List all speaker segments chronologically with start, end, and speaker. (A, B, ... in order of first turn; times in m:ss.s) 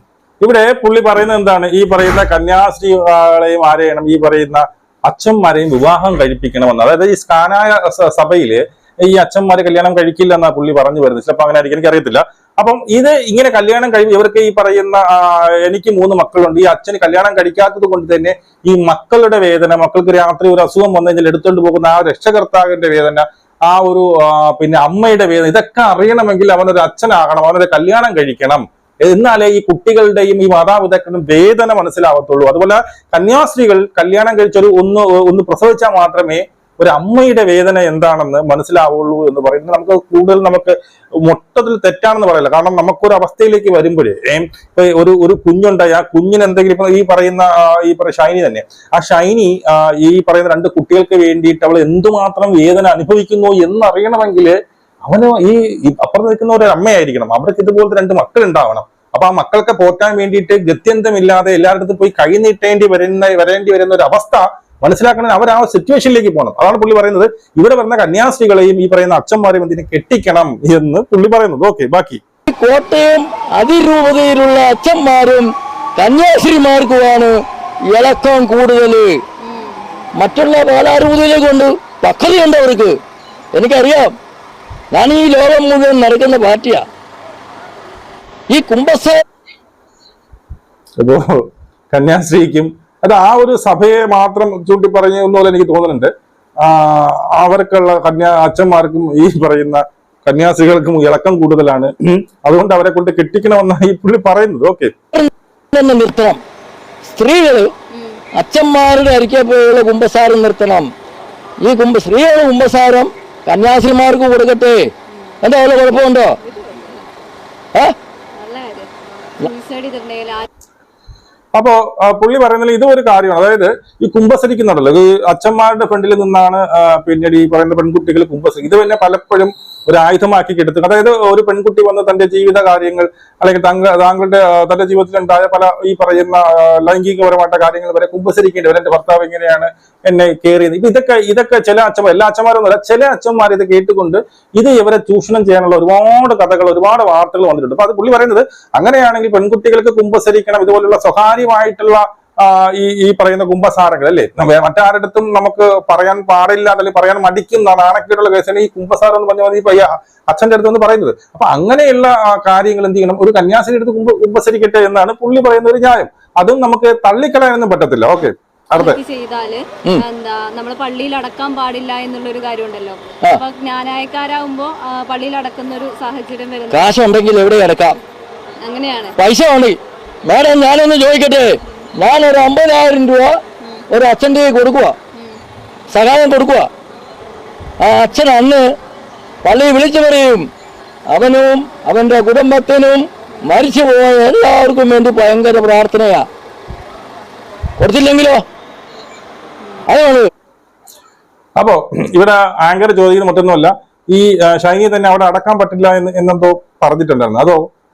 0:00.4-1:12.2 A
1:12.5-1:17.4 B
1:17.9-1:19.2 B
1:19.4-1:19.8 C
1:20.2-1:23.0 B
1:23.5-1:24.1 B
1:24.9-1:26.8 B
1:28.5-1:29.2 B
1:31.0-1:44.9 A
1:45.1-1:46.4 B
1:47.0-1:47.7 B
1:47.9-1:48.2 C
1:48.4-1:50.9 B
1:51.6-1:54.9 B
1:55.4-1:56.3 B
1:56.4-1:57.0 C
1:58.4-2:00.5 C
2:01.5-2:49.0 A
2:48.7-2:56.9 C
2:56.7-2:58.0 B
2:58.6-2:59.2 C
2:59.2-3:03.4 B
3:03.9-3:05.0 B
3:05.9-3:06.7 B
3:07.8-3:08.6 B
3:09.4-3:10.5 B
3:11.1-3:16.3 B
3:17.8-3:18.4 B
3:19.9-3:20.3 B
3:21.6-3:27.6 A